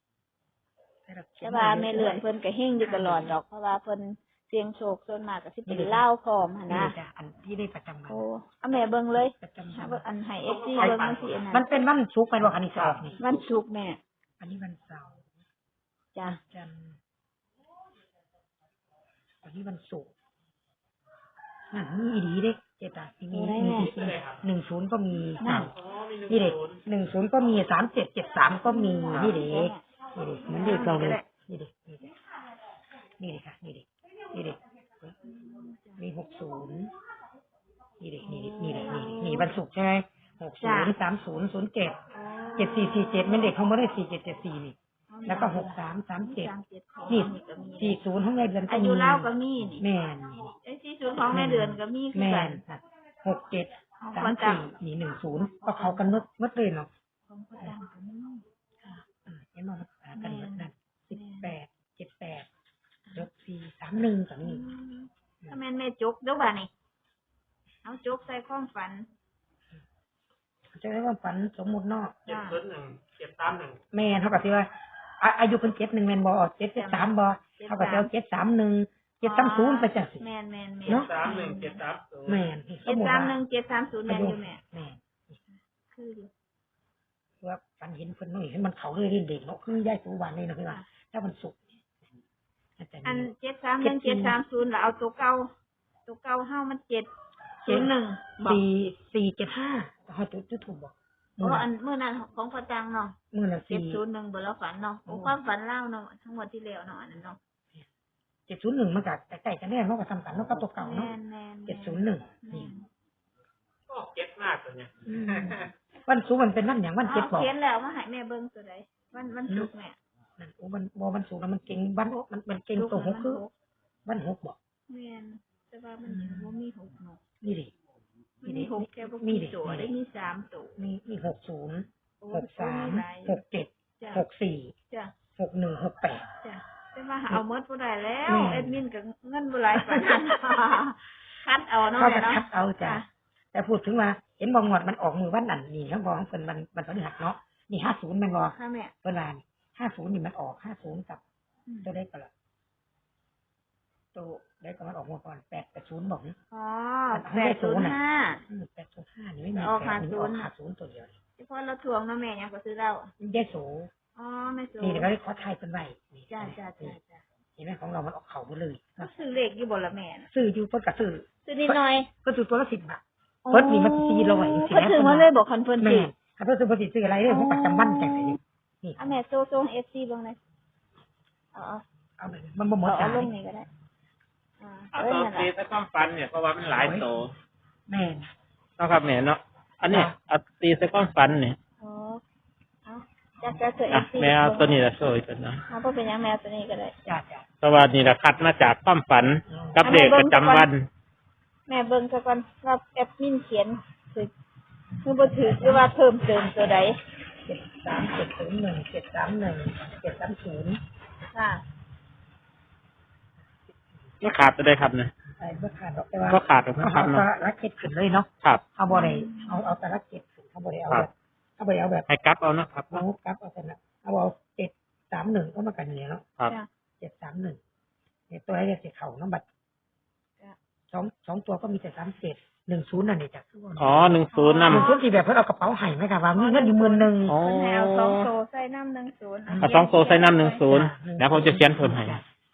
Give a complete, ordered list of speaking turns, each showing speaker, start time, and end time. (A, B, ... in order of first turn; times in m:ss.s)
0:01.1-0:02.2 A
0:01.4-0:06.9 B
0:02.8-0:03.4 A
0:05.7-0:06.0 A
0:06.7-0:08.2 A
0:08.1-0:11.7 B
0:09.4-0:10.0 A
0:10.5-0:11.4 C
0:10.8-0:13.2 A
0:12.8-0:13.1 C
0:13.2-0:14.0 B
0:14.4-0:15.3 A
0:16.2-0:16.4 B
0:16.5-0:17.0 A
0:19.4-0:20.1 A
0:21.7-0:25.7 A
0:23.3-0:23.9 B
0:23.7-0:24.4 C
0:25.4-0:25.7 B
0:25.8-0:26.8 C
0:26.3-0:32.1 A
0:28.6-0:29.8 B
0:30.5-0:31.2 B
0:33.2-0:34.6 A
0:35.2-0:36.0 B
0:36.0-0:36.9 A
0:38.0-0:42.0 A
0:38.2-0:39.6 B
0:40.6-0:41.0 B
0:42.1-0:43.5 B
0:42.6-0:44.8 A
0:45.1-0:48.0 B
0:45.3-0:46.5 A
0:47.1-0:49.3 A
0:48.7-0:49.8 B
0:49.8-0:50.5 A
0:50.6-0:52.6 B
0:51.2-0:56.9 A
0:54.0-0:54.7 B
0:55.5-0:56.2 B
0:57.3-0:59.0 B
0:59.3-1:02.5 A
1:00.2-1:01.5 B
1:03.1-1:04.6 A
1:04.4-1:06.7 B
1:07.8-1:09.1 B
1:10.7-1:12.2 A
1:12.3-1:13.8 C
1:12.3-1:12.6 B
1:13.9-1:14.7 A
1:15.2-1:20.2 A
1:16.8-1:18.1 B
1:19.2-1:21.8 B
1:20.9-1:21.1 A
1:20.9-1:22.4 C
1:22.3-1:23.4 A
1:22.9-1:24.6 B
1:24.1-1:25.4 A
1:25.9-1:26.3 B
1:27.4-1:31.6 A
1:32.8-1:33.3 A
1:33.0-1:35.5 B
1:33.8-1:34.4 A
1:36.1-1:37.1 B
1:37.6-1:38.6 B
1:37.7-1:41.7 A
1:41.4-1:43.2 B
1:43.3-1:44.0 A
1:43.7-1:47.4 B
1:45.1-1:45.4 A
1:48.5-1:51.2 A
1:50.7-1:52.9 B
1:51.7-1:52.7 A
1:53.9-1:55.7 C
1:55.0-1:57.5 A
1:57.0-2:00.0 B
2:00.4-2:03.4 A
2:02.8-2:03.5 B
2:04.1-2:04.6 A
2:04.9-2:07.2 B
2:06.1-2:06.6 A
2:07.4-2:07.7 A
2:08.4-2:10.8 B
2:08.4-2:09.9 A
2:10.8-2:14.8 A
2:12.2-2:13.4 B
2:14.0-2:14.2 B
2:15.4-2:16.3 A
2:16.4-2:23.1 B
2:18.3-2:18.8 A
2:19.7-2:20.3 A
2:22.0-2:31.2 A
2:28.5-2:28.9 B
2:31.7-2:31.9 B
2:31.8-2:32.3 A
2:34.1-2:36.4 A
2:36.5-2:38.4 B
2:37.1-2:38.0 A
2:38.5-2:41.1 A
2:39.6-2:40.5 B
2:41.4-2:43.1 B
2:43.2-2:43.9 A
2:44.2-2:45.1 B
2:44.8-2:47.0 A
2:46.3-2:47.2 B
2:47.6-2:49.1 A
2:49.0-2:50.3 B
2:50.3-2:59.0 A
2:51.4-2:52.1 B
2:53.4-2:56.1 B
2:57.3-2:58.4 B
2:59.0-3:00.4 B
3:01.5-3:01.8 B
3:02.2-3:03.3 A
3:02.8-3:03.7 B
3:04.6-3:05.5 B
3:04.9-3:07.3 C
3:06.7-3:07.1 A
3:07.9-3:08.3 A
3:08.8-3:11.6 C
3:09.9-3:10.1 A
3:11.8-3:12.2 B
3:12.9-3:14.9 B
3:13.9-3:15.6 C
3:15.7-3:16.9 B
3:17.1-3:17.4 A
3:17.6-3:20.9 C
3:19.5-3:19.8 A
3:19.8-3:20.7 B
3:21.7-3:24.3 B
3:25.0-3:27.0 B
3:25.4-3:25.9 A
3:27.4-3:30.8 A
3:31.3-3:31.6 B
3:34.2-3:35.1 C
3:35.4-3:42.1 A
3:36.3-3:37.3 C
3:38.9-3:39.7 B
3:42.1-3:43.0 C
3:42.9-3:46.3 A
3:47.0-3:47.6 A
3:48.3-3:49.4 A
3:50.9-3:57.4 A
3:53.8-3:54.9 C
3:54.3-3:55.0 B
3:56.3-4:00.6 B
3:57.3-3:58.3 C
3:59.5-3:59.8 A
3:59.6-4:02.2 C
4:00.7-4:02.2 A